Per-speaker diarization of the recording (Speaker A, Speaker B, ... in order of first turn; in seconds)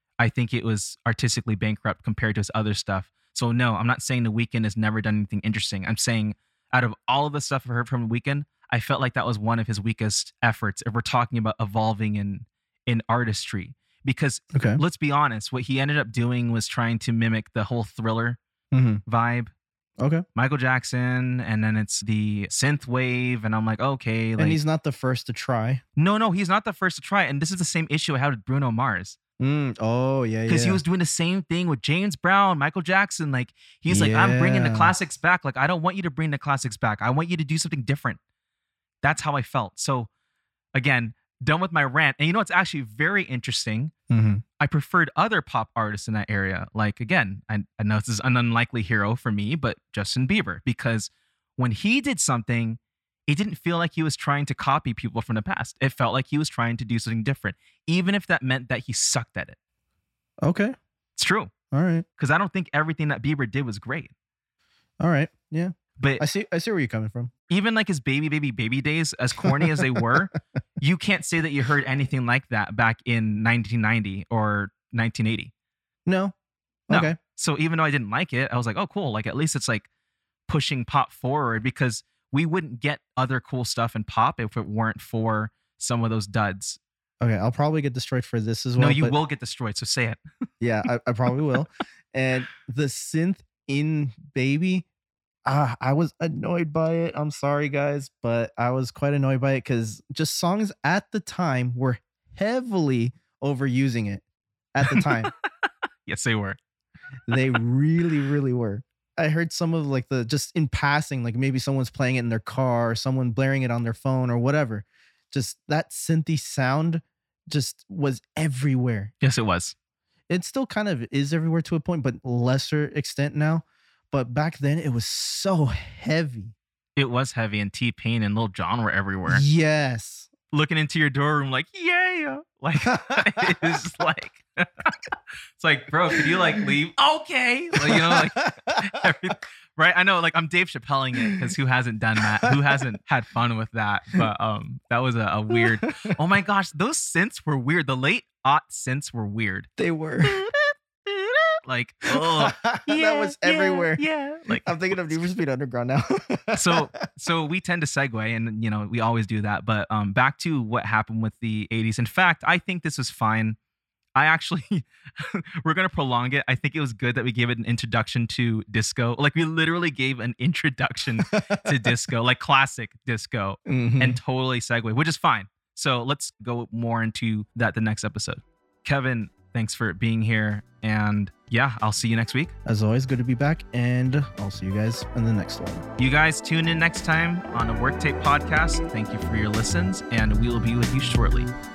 Speaker A: 0.2-18.4, 19.1-19.5, 20.3-24.6, 26.0-29.2, 30.5-38.2, 39.0-40.1, 40.7-43.9, 44.6-59.6, 61.1-61.5, 62.2-64.1, 66.0-66.2, 67.5-75.5, 76.9-79.9, 80.5-86.8, 88.8-90.2, 104.8-105.1, 105.6-106.6, 119.2-119.7, 127.0-129.4, 130.5-134.9, 135.6-149.7, 150.2-155.2, 156.5-163.6, 164.2-182.5, 186.0-191.5
Speaker B: 14.5-14.8, 18.7-19.0, 24.4-25.8, 29.4-30.8, 33.9-34.9, 44.1-44.4, 60.4-60.7, 61.7-62.0, 65.0-67.3, 76.0-76.3, 76.9-77.2, 87.2-89.1, 90.6-94.9, 95.5-105.3, 107.3-119.1, 120.3-126.5, 129.3-130.3, 132.8-133.2, 137.9-138.5, 149.8-150.4, 152.2-154.0, 154.6-156.9, 171.2-171.7, 173.7-174.2, 182.6-185.8